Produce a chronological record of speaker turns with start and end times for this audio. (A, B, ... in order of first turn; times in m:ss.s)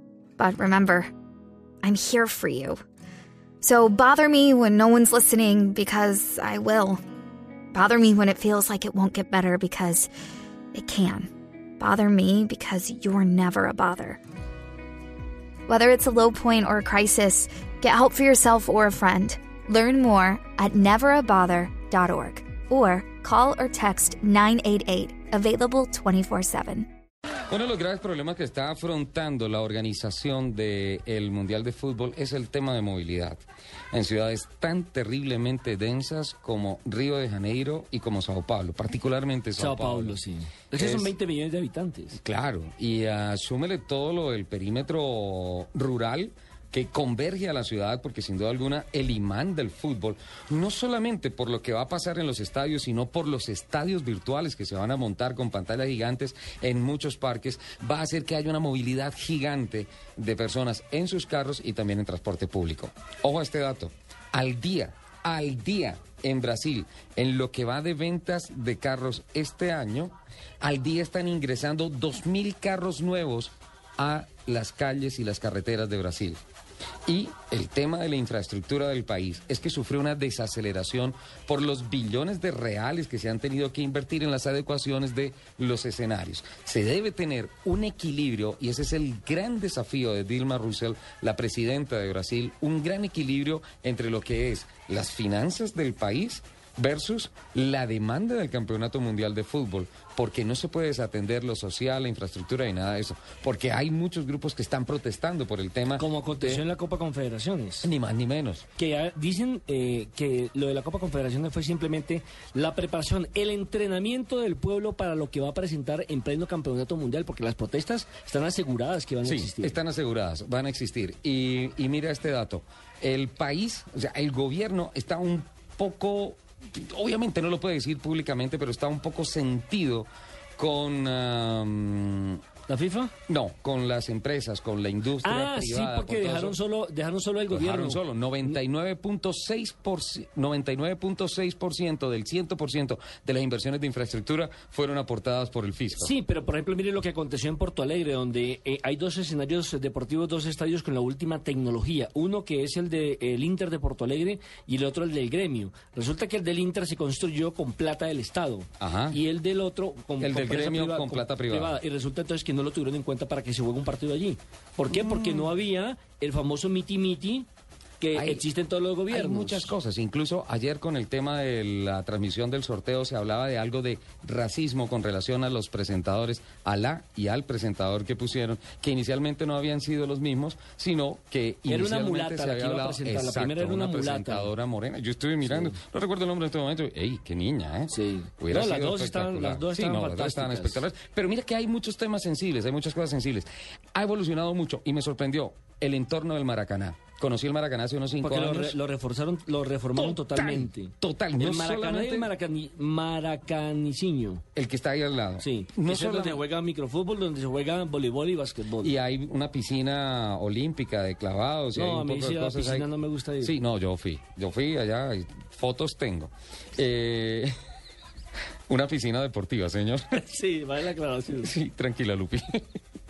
0:00.4-0:01.1 A
0:01.8-0:02.8 A
0:03.6-0:07.0 A
0:07.7-0:10.1 A
0:10.7-0:14.2 A
0:15.7-0:26.9 A
0:27.5-0:40.2 B
0:39.6-0:42.2 C
0:40.8-0:41.1 B
0:42.2-1:16.4 B
1:17.1-1:46.6 B
1:46.0-1:47.9 C
1:47.8-1:48.6 B
1:48.8-1:59.8 C
1:59.2-2:12.4 B
2:12.7-2:13.1 C
2:13.3-2:16.6 B
2:15.2-2:18.5 C
2:17.5-2:26.1 B
2:26.0-2:47.4 C
2:38.8-2:39.2 B
2:40.2-2:41.8 B
2:44.9-2:45.5 B
2:48.0-2:49.7 C
2:48.1-2:48.4 B
2:49.1-3:18.8 B
3:01.7-3:04.5 C
3:05.4-3:05.7 C
3:07.9-3:10.8 C
3:18.2-3:24.4 C
3:20.0-3:22.3 B
3:24.5-3:26.4 B
3:25.4-3:28.9 C
3:28.8-3:32.9 B
3:31.7-3:33.5 C
3:33.4-3:37.5 B
3:38.7-3:40.1 B
3:40.2-3:41.5 C
3:41.4-3:42.6 B